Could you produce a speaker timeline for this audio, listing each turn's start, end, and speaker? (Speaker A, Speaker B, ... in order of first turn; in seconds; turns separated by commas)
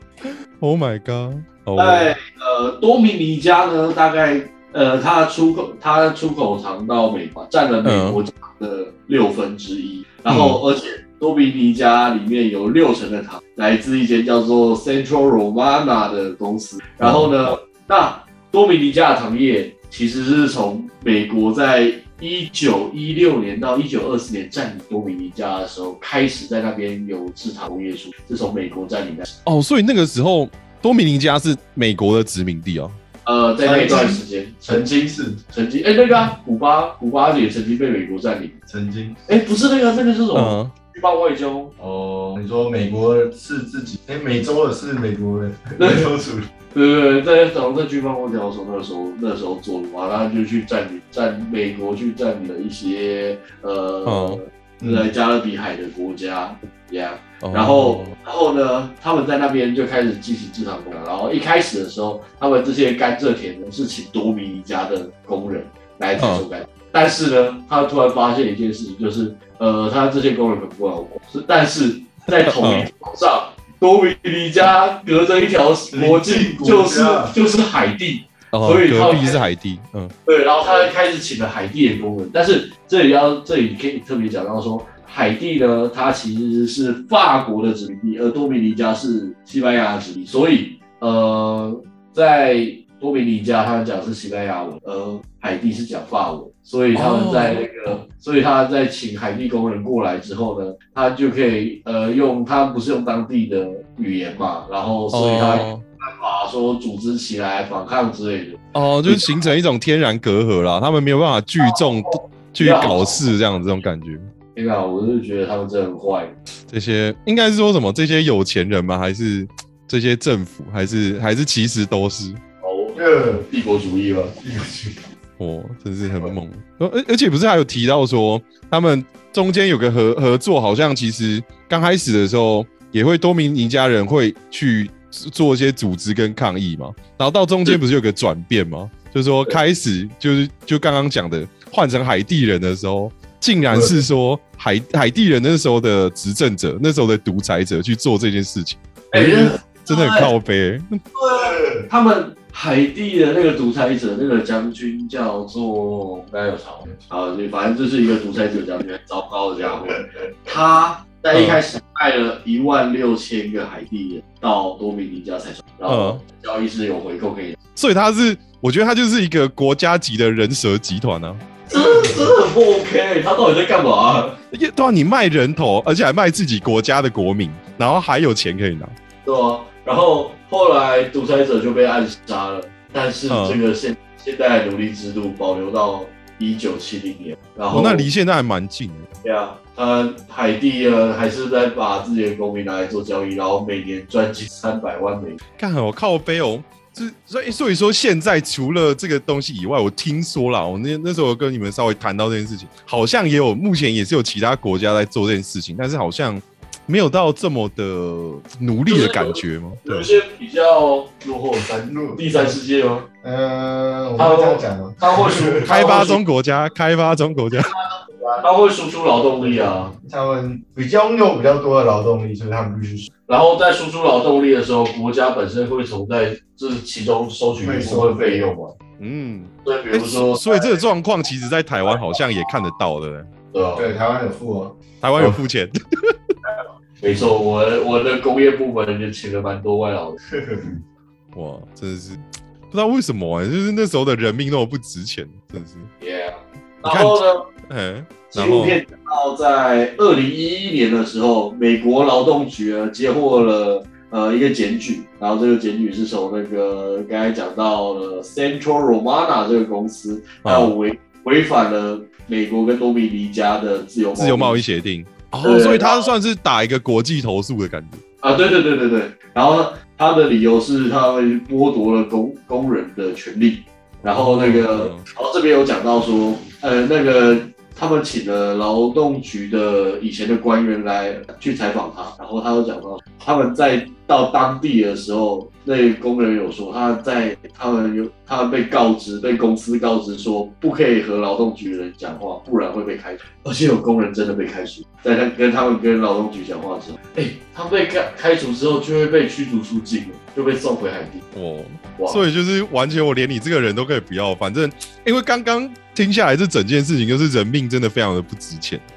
Speaker A: 0.2-2.1, Speaker B: 1.8-29.3, Speaker A: 7.8-8.2, Speaker A: 10.3-10.6, Speaker A: 17.0-17.5, Speaker A: 29.4-33.0, Speaker B: 33.2-38.6, Speaker C: 33.6-35.4, Speaker C: 38.7-39.2, Speaker B: 39.3-41.7, Speaker A: 40.3-40.7, Speaker C: 41.8-46.5, Speaker B: 45.8-46.1, Speaker B: 46.7-79.5, Speaker A: 54.1-54.4, Speaker A: 57.4-58.1, Speaker A: 66.2-66.4, Speaker A: 72.3-72.9, Speaker C: 75.9-77.3, Speaker A: 78.5-80.1, Speaker B: 80.3-109.4, Speaker A: 96.9-98.0, Speaker A: 105.1-105.8, Speaker A: 108.7-114.3, Speaker B: 111.6-113.2, Speaker B: 114.5-116.3, Speaker A: 116.7-122.4, Speaker B: 122.6-124.3, Speaker C: 123.0-123.5, Speaker C: 124.4-125.0, Speaker A: 125.4-151.0, Speaker C: 143.7-144.0, Speaker B: 149.1-150.3, Speaker B: 151.2-167.6, Speaker C: 151.4-151.9, Speaker A: 161.3-161.6, Speaker A: 165.9-166.2, Speaker A: 167.8-171.4, Speaker B: 171.7-174.4, Speaker A: 174.5-178.9, Speaker B: 179.2-188.1, Speaker A: 183.3-183.6, Speaker A: 187.7-189.1, Speaker B: 189.2-195.4, Speaker A: 195.6-210.1, Speaker B: 208.9-213.1, Speaker C: 211.9-212.6, Speaker C: 213.2-215.7, Speaker B: 214.2-216.2, Speaker A: 215.7-217.7, Speaker C: 218.0-218.4, Speaker B: 218.4-219.9, Speaker C: 219.4-223.1, Speaker B: 223.3-228.8, Speaker C: 227.6-228.5, Speaker A: 229.0-233.3, Speaker B: 229.7-230.8, Speaker B: 233.5-233.9, Speaker C: 233.8-235.4, Speaker A: 235.0-236.2, Speaker B: 237.0-240.2, Speaker C: 240.3-240.8, Speaker A: 241.3-245.9, Speaker B: 246.0-247.4, Speaker A: 246.8-248.8, Speaker B: 248.3-264.6, Speaker A: 260.4-260.7, Speaker A: 264.2-268.0, Speaker B: 265.4-266.1, Speaker B: 268.2-301.2, Speaker A: 274.0-275.0, Speaker A: 301.3-308.8, Speaker B: 302.0-302.2